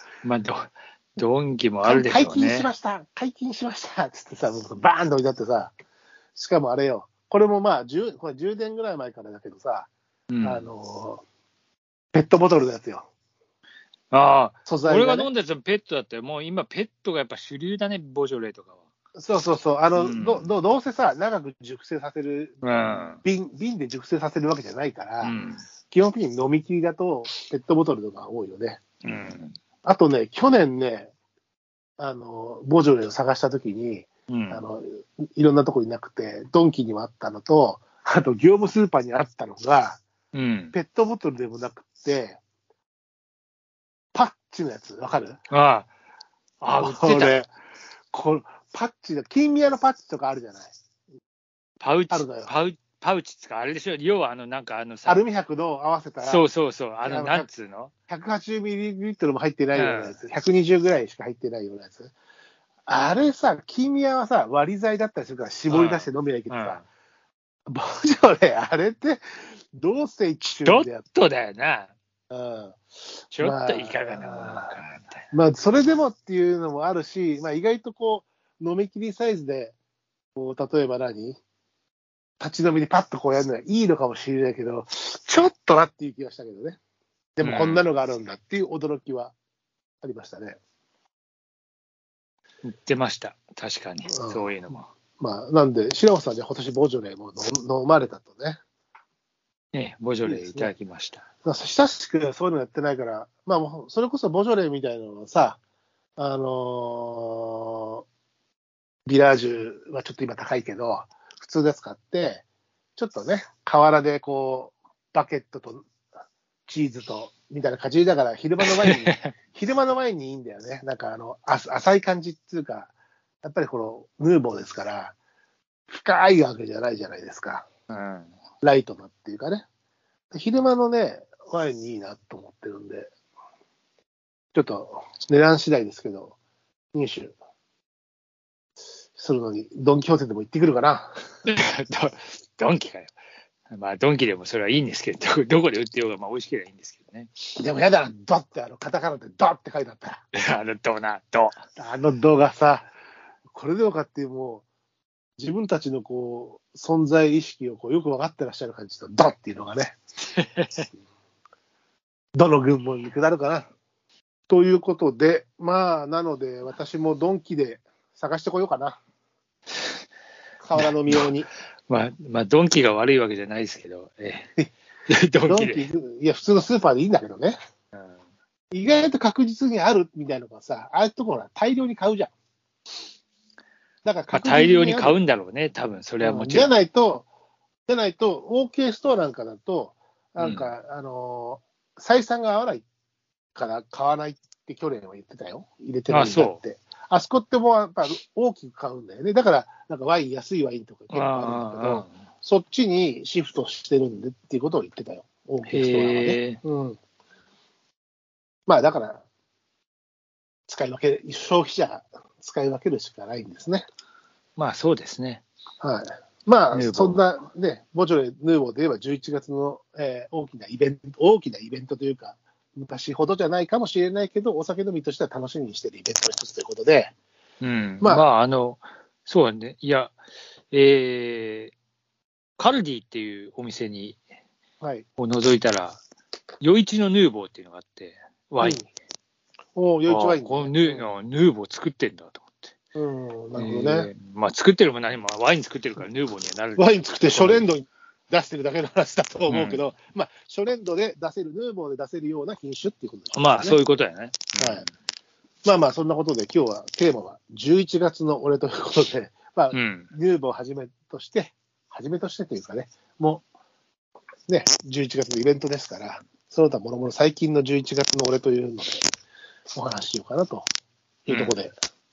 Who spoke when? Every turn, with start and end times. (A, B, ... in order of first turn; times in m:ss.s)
0:00.2-0:02.7 A
0:01.8-0:05.7 B
0:06.4-0:09.9 B
0:10.3-0:10.7 A
0:10.4-0:11.2 B
0:12.1-0:13.0 B
0:14.1-0:18.8 A
0:14.7-0:15.3 B
0:19.2-0:25.4 B
0:19.9-0:20.5 A
0:22.6-0:23.2 A
0:25.2-0:25.6 A
0:25.9-0:29.0 B
0:29.0-0:29.6 A
0:29.8-0:31.1 B
0:32.0-0:40.0 B
0:34.3-0:34.6 A
0:40.3-0:40.7 A
0:40.7-0:42.4 B
0:44.1-0:45.4 B
0:45.5-0:45.9 A
0:46.6-0:47.4 A
0:46.7-0:47.5 B
0:48.1-0:50.7 B
0:51.8-0:55.2 A
0:52.1-0:52.5 B
0:55.0-0:56.5 B
0:56.2-0:57.9 A
0:57.0-0:57.5 B
0:58.1-1:02.1 B
0:59.8-1:00.2 A
1:02.9-1:06.8 B
1:05.7-1:06.8 A
1:07.7-1:09.2 B
1:09.7-1:11.0 B
1:10.6-1:11.9 A
1:12.3-1:12.8 B
1:13.3-1:15.3 A
1:13.4-1:14.8 B
1:15.3-1:19.7 B
1:20.4-1:21.4 B
1:22.4-1:26.8 B
1:27.4-1:29.3 B
1:27.4-1:27.9 A
1:30.0-1:30.6 B
1:32.6-1:34.9 A
1:34.1-1:34.5 B
1:35.2-1:38.6 B
1:39.7-1:41.2 A
1:40.2-1:40.7 B
1:41.4-1:45.6 B
1:46.2-1:48.0 B
1:49.1-1:52.4 B
1:53.0-1:55.9 B
1:56.7-2:02.9 B
1:58.6-1:59.3 A
2:03.4-2:05.1 B
2:05.9-2:07.7 B
2:07.9-2:08.3 A
2:08.6-2:09.6 B
2:10.3-2:13.1 B
2:14.5-2:16.4 B
2:16.9-2:17.4 B
2:19.2-2:21.1 B
2:21.4-2:23.1 A
2:23.7-2:27.3 A
2:27.6-2:30.2 B
2:30.3-2:31.6 A
2:31.8-2:32.9 B
2:33.5-2:34.6 B
2:35.4-2:40.0 B
2:40.4-2:40.9 A
2:42.4-2:43.7 B
2:44.5-2:49.0 B
2:50.6-2:51.5 B
2:50.8-2:51.3 A
2:51.9-2:54.5 A
2:55.1-2:55.9 A
2:55.5-2:57.6 B
2:58.7-3:02.3 B
3:04.0-3:05.2 B
3:04.3-3:06.7 A
3:06.2-3:07.3 B
3:07.9-3:12.8 B
3:10.4-3:10.7 A
3:13.6-3:27.0 B
3:16.1-3:16.6 A
3:21.1-3:22.2 A
3:25.7-3:26.6 A
3:28.7-3:29.2 B
3:30.7-3:33.9 B
3:34.6-3:35.4 A
3:35.8-3:47.1 B
3:36.7-3:37.2 A
3:47.6-3:50.2 A
3:48.0-3:48.3 B
3:50.7-3:51.7 A
3:52.6-3:54.2 A
3:54.8-3:55.1 B
3:55.2-3:56.0 A
3:56.6-3:58.8 A
3:58.6-3:58.9 B
3:59.8-4:01.0 B
4:00.1-4:02.7 A
4:03.0-4:04.1 B
4:03.6-4:07.7 A
4:06.8-4:13.8 B
4:09.5-4:09.8 A
4:13.3-4:14.9 A
4:14.6-4:14.8 B
4:15.6-4:23.4 B
4:19.7-4:20.1 A
4:24.5-4:29.0 B
4:29.7-4:30.7 B
4:31.3-4:31.7 B
4:31.3-4:31.6 A